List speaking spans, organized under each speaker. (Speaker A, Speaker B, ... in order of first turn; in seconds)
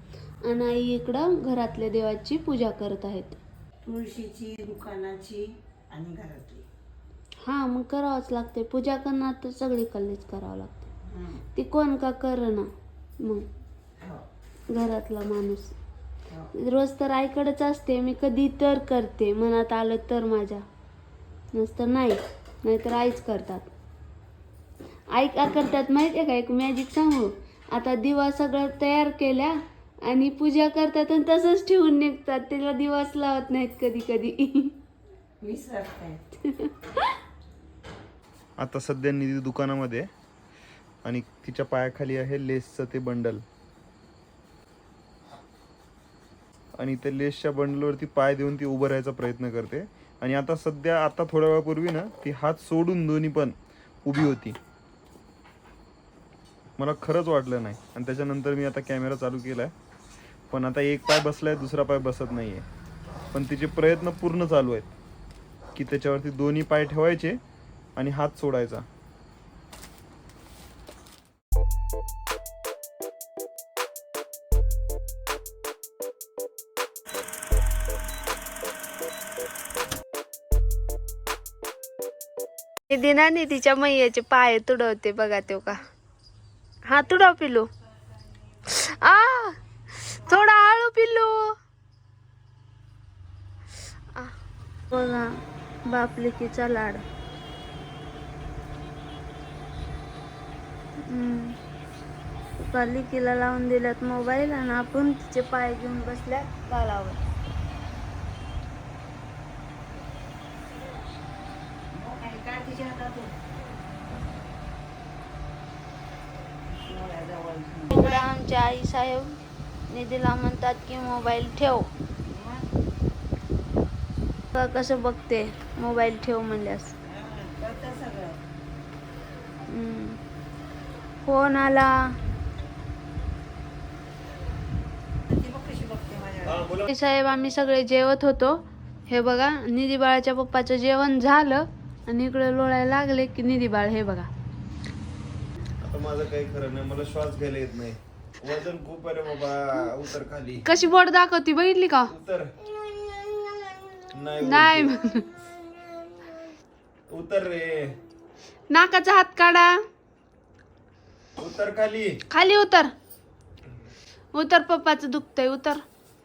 Speaker A: 0.4-3.4, 7.4-10.9, 11.5-12.7, 13.2-13.4, 14.7-15.8, 16.5-20.6, 21.5-23.7, 25.1-34.8, 36.4-37.2, 82.9-85.8, 86.9-87.7, 88.6-91.5, 94.9-97.0, 101.0-101.6, 102.6-107.2, 117.9-119.4, 119.9-121.9, 124.5-126.9, 129.7-130.2, 131.2-131.9, 136.8-144.3, 150.6-152.1, 154.4-155.2, 158.7-159.8, 162.3-162.9, 164.3-165.8
Speaker B: 3.8-6.7, 11.1-11.4, 14.0-14.2, 35.4-36.2, 111.9-113.4, 116.7-118.3, 122.3-122.7, 127.0-128.4, 135.3-136.7
Speaker C: 38.6-40.1, 41.0-43.4, 46.8-54.6, 56.8-59.7, 60.5-62.6, 63.3-64.9, 65.7-67.4, 68.0-68.8, 136.4-136.9, 145.8-150.6, 152.1-152.5, 154.1-154.9, 157.1-158.0, 161.4-162.2